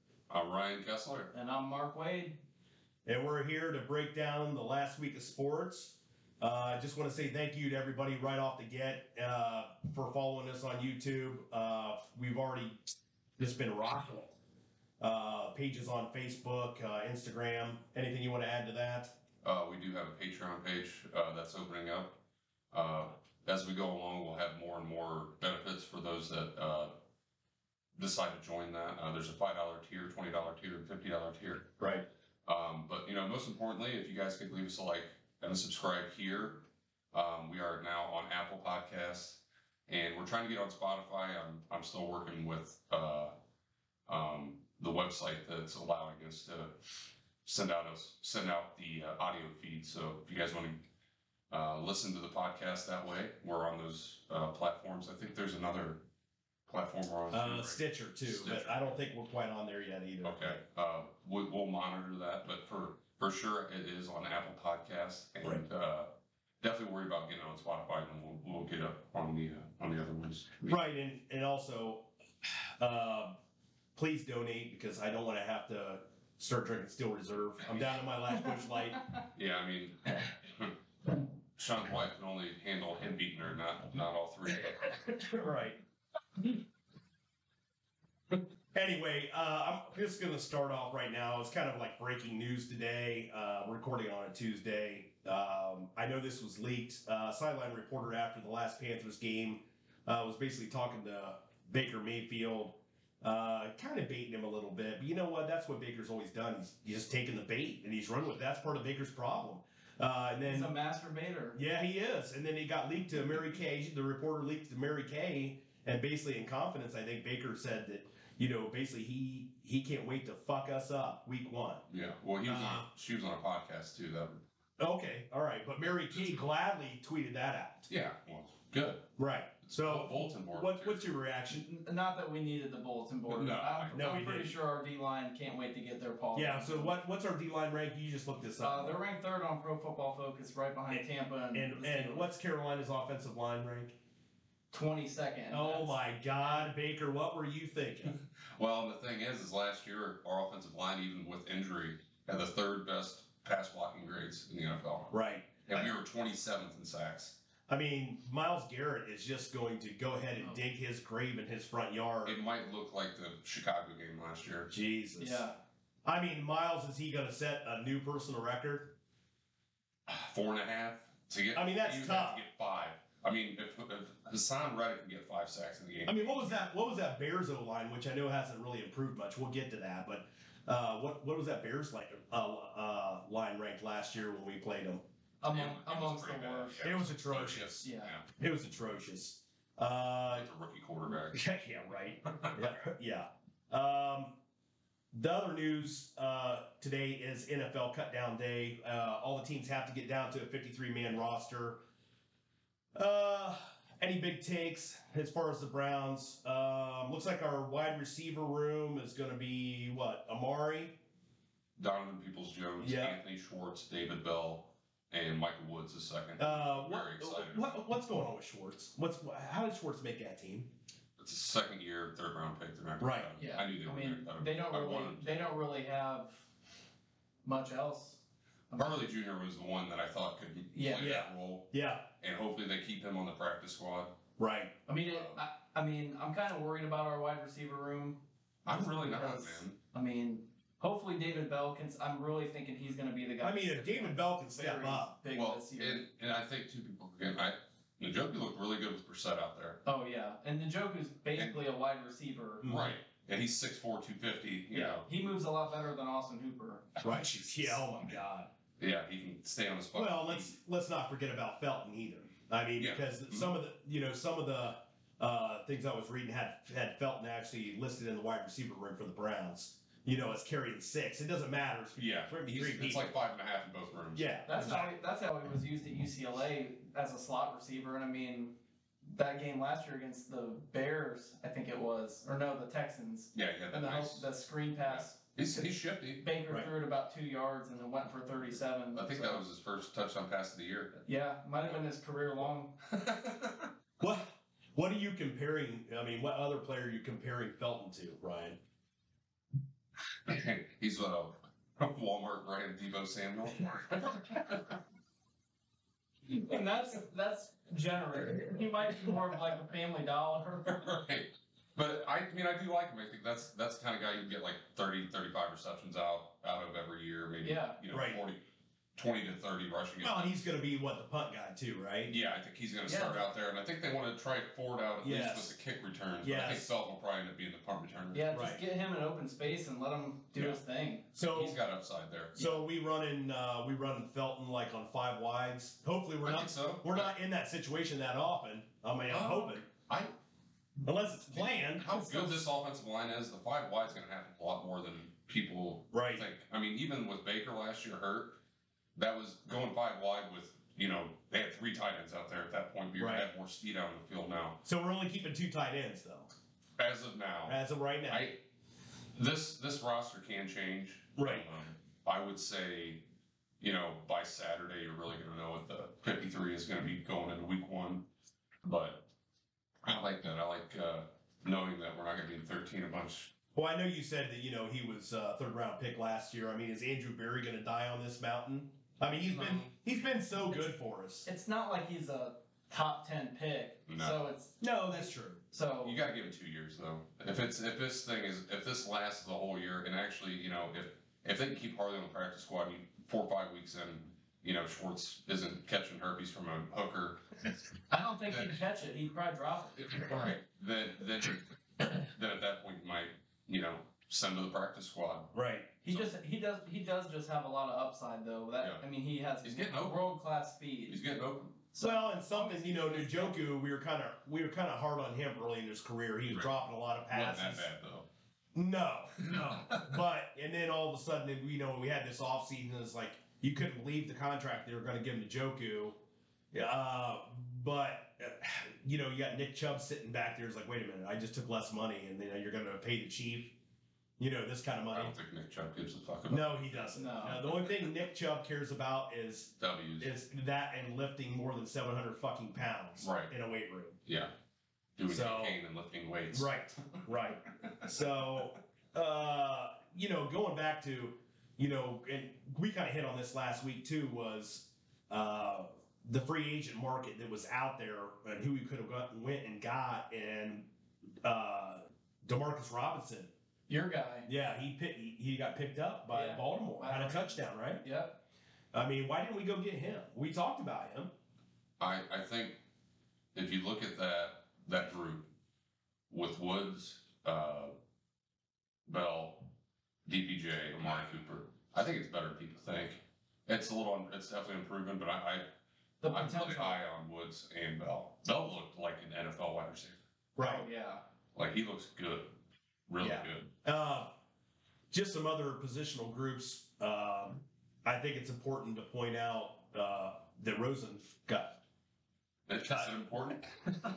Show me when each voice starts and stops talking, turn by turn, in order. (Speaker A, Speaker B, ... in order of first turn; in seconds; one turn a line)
Speaker A: 0.3-1.3
Speaker B: 1.3-2.4
Speaker C: 3.1-14.3
Speaker C: 15.0-19.1
Speaker A: 19.4-22.2
Speaker A: 22.7-26.9
Speaker A: 27.9-31.7
Speaker C: 31.8-32.1
Speaker A: 32.5-43.3
Speaker A: 44.1-46.7
Speaker A: 47.5-50.8
Speaker A: 51.5-56.0
Speaker A: 56.7-58.9
Speaker C: 57.3-60.6
Speaker A: 60.2-70.8
Speaker C: 70.7-73.4
Speaker C: 74.0-79.0
Speaker A: 79.3-80.7
Speaker A: 81.6-85.0
Speaker C: 85.2-85.8
Speaker C: 88.7-110.7
Speaker B: 110.5-111.6
Speaker C: 111.5-121.8
Speaker A: 121.9-124.4
Speaker C: 122.5-122.9
Speaker C: 124.8-127.9
Speaker A: 127.9-129.1
Speaker C: 129.2-131.7
Speaker A: 129.6-131.2
Speaker B: 131.5-136.9
Speaker A: 133.3-134.3
Speaker C: 133.9-134.5
Speaker C: 136.3-139.0
Speaker B: 138.6-142.3
Speaker C: 140.9-143.9
Speaker B: 144.7-146.6
Speaker C: 145.5-148.1
Speaker A: 148.4-157.4
Speaker C: 155.1-155.9
Speaker C: 157.7-162.4
Speaker A: 162.2-164.7
Speaker C: 164.7-165.5
Speaker B: 165.2-165.6
Speaker C: 166.1-168.9
Speaker A: 170.1-176.7
Speaker C: 171.6-172.4
Speaker C: 176.1-185.0
Speaker B: 185.4-186.8
Speaker A: 185.5-188.3
Speaker C: 186.8-190.5
Speaker B: 187.8-188.1
Speaker A: 190.3-191.4
Speaker C: 191.2-194.3
Speaker A: 192.3-192.7
Speaker C: 195.1-201.8
Speaker C: 202.9-211.0
Speaker A: 211.8-217.8
Speaker C: 212.8-213.2
Speaker C: 216.4-220.7
Speaker A: 221.2-225.6
Speaker C: 223.0-223.3
Speaker B: 223.4-226.4
Speaker B: 227.4-229.0
Speaker A: 228.8-234.2
Speaker B: 230.7-231.1
Speaker C: 231.0-232.1
Speaker C: 234.4-234.7
Speaker B: 234.9-246.0
Speaker A: 235.1-235.4
Speaker A: 238.7-239.8
Speaker C: 243.4-245.1
Speaker A: 245.3-249.8
Speaker B: 249.8-252.7
Speaker C: 252.6-253.0
Speaker A: 252.6-255.1
Speaker B: 254.7-256.9
Speaker C: 257.0-258.5
Speaker A: 258.8-260.5
Speaker C: 259.9-273.1
Speaker A: 262.8-263.5
Speaker A: 272.0-274.8
Speaker C: 274.1-274.9
Speaker B: 274.5-285.6
Speaker A: 283.3-286.2
Speaker B: 286.2-289.4
Speaker A: 288.9-291.0
Speaker B: 291.1-292.8
Speaker A: 292.9-293.7
Speaker C: 294.0-298.6
Speaker A: 300.2-304.8
Speaker B: 306.3-310.9
Speaker A: 310.7-318.4
Speaker B: 317.4-317.8
Speaker C: 317.9-318.2
Speaker A: 319.0-320.4
Speaker C: 320.0-322.1
Speaker A: 322.1-328.3
Speaker B: 322.9-323.2
Speaker C: 325.0-325.6
Speaker C: 326.2-326.7
Speaker B: 328.1-331.1
Speaker C: 328.3-328.6
Speaker C: 331.1-331.6
Speaker A: 331.2-332.4
Speaker C: 332.4-339.6
Speaker A: 336.2-337.1
Speaker A: 339.1-340.1
Speaker C: 340.8-342.4
Speaker A: 341.3-348.4
Speaker C: 345.9-346.2
Speaker A: 348.9-354.6
Speaker C: 353.0-353.3
Speaker C: 354.6-356.3
Speaker A: 356.8-358.4
Speaker C: 357.5-358.3
Speaker A: 359.1-363.0
Speaker C: 361.2-361.5
Speaker A: 363.6-368.1
Speaker A: 368.6-369.1
Speaker A: 369.8-373.3
Speaker C: 373.6-381.3
Speaker A: 379.3-379.7
Speaker B: 381.2-385.0
Speaker A: 383.9-384.2
Speaker C: 384.6-385.4
Speaker B: 385.5-386.0
Speaker A: 385.8-397.2
Speaker B: 397.9-400.1
Speaker A: 398.3-398.5
Speaker A: 400.0-405.3
Speaker C: 405.3-405.7
Speaker B: 405.8-411.0
Speaker A: 408.6-408.8
Speaker A: 409.4-410.0
Speaker A: 410.9-411.6
Speaker B: 411.7-413.4
Speaker C: 411.8-417.7
Speaker A: 417.1-418.1
Speaker C: 418.6-426.0
Speaker A: 419.2-420.0
Speaker C: 426.5-433.6
Speaker C: 434.2-435.1
Speaker A: 434.9-437.9
Speaker C: 436.3-444.0
Speaker B: 436.9-437.4
Speaker A: 439.6-440.1
Speaker A: 443.0-443.3
Speaker A: 444.1-444.3
Speaker A: 445.0-446.5
Speaker C: 445.1-445.6
Speaker C: 446.3-460.7
Speaker C: 461.2-463.3
Speaker B: 463.7-464.3
Speaker C: 464.3-467.8
Speaker B: 466.1-468.2
Speaker C: 468.7-471.1
Speaker A: 471.8-472.6
Speaker A: 473.4-475.3
Speaker A: 476.1-477.8
Speaker A: 478.9-479.5
Speaker A: 480.1-485.5
Speaker B: 486.0-486.8
Speaker A: 486.1-490.0
Speaker C: 490.4-490.6
Speaker B: 490.4-491.0
Speaker A: 491.4-492.4
Speaker A: 492.9-493.5
Speaker C: 493.0-494.1
Speaker C: 494.9-501.6
Speaker A: 502.5-503.7
Speaker C: 502.7-502.9